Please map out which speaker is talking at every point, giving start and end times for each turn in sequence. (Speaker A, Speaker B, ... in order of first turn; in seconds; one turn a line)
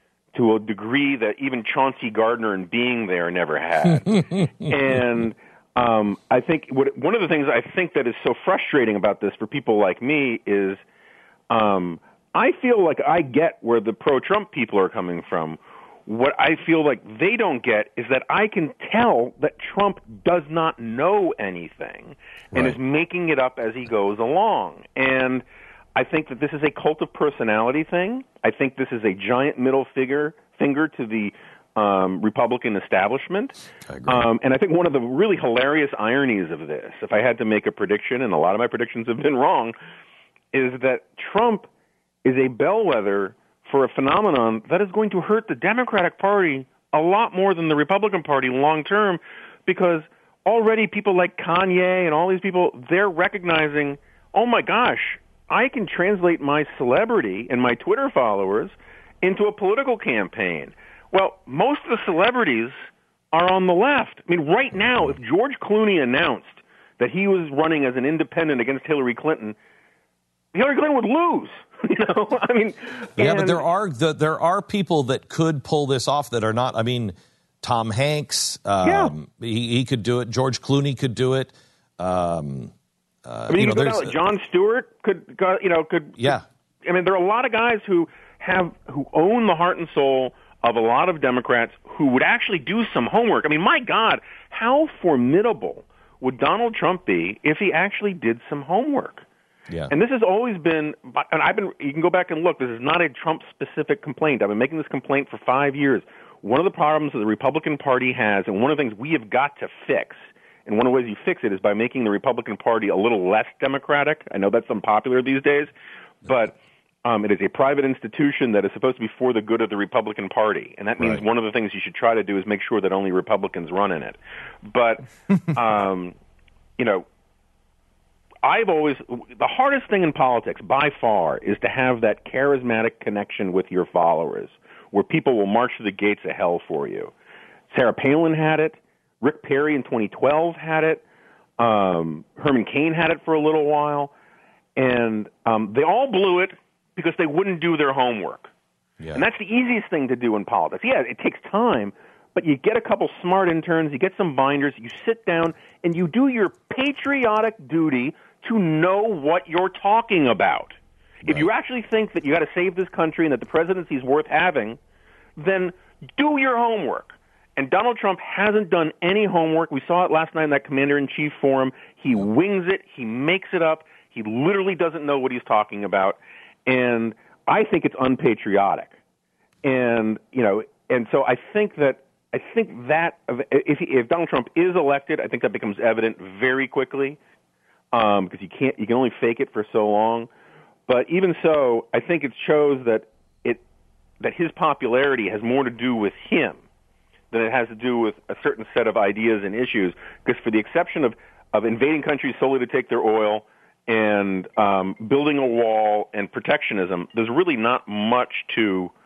Speaker A: 0.3-10.8
Speaker A: 11.5-25.4
Speaker B: 22.5-22.8
Speaker A: 26.0-39.8
Speaker B: 33.9-34.3
Speaker A: 40.5-41.7
Speaker A: 42.2-62.8
Speaker A: 63.3-69.6
Speaker A: 70.5-73.6
Speaker B: 73.2-82.7
Speaker A: 78.8-79.1
Speaker B: 83.2-84.2
Speaker A: 83.5-99.2
Speaker B: 86.2-86.5
Speaker A: 99.9-115.7
Speaker A: 116.3-125.0
Speaker A: 125.5-126.2
Speaker A: 126.8-127.0
Speaker A: 128.4-137.1
Speaker A: 137.7-141.0
Speaker A: 141.6-144.1
Speaker A: 144.8-148.5
Speaker A: 149.1-164.8
Speaker A: 165.4-179.0
Speaker A: 179.6-187.2
Speaker A: 187.9-190.3
Speaker A: 190.9-193.6
Speaker A: 194.2-196.6
Speaker A: 197.3-208.9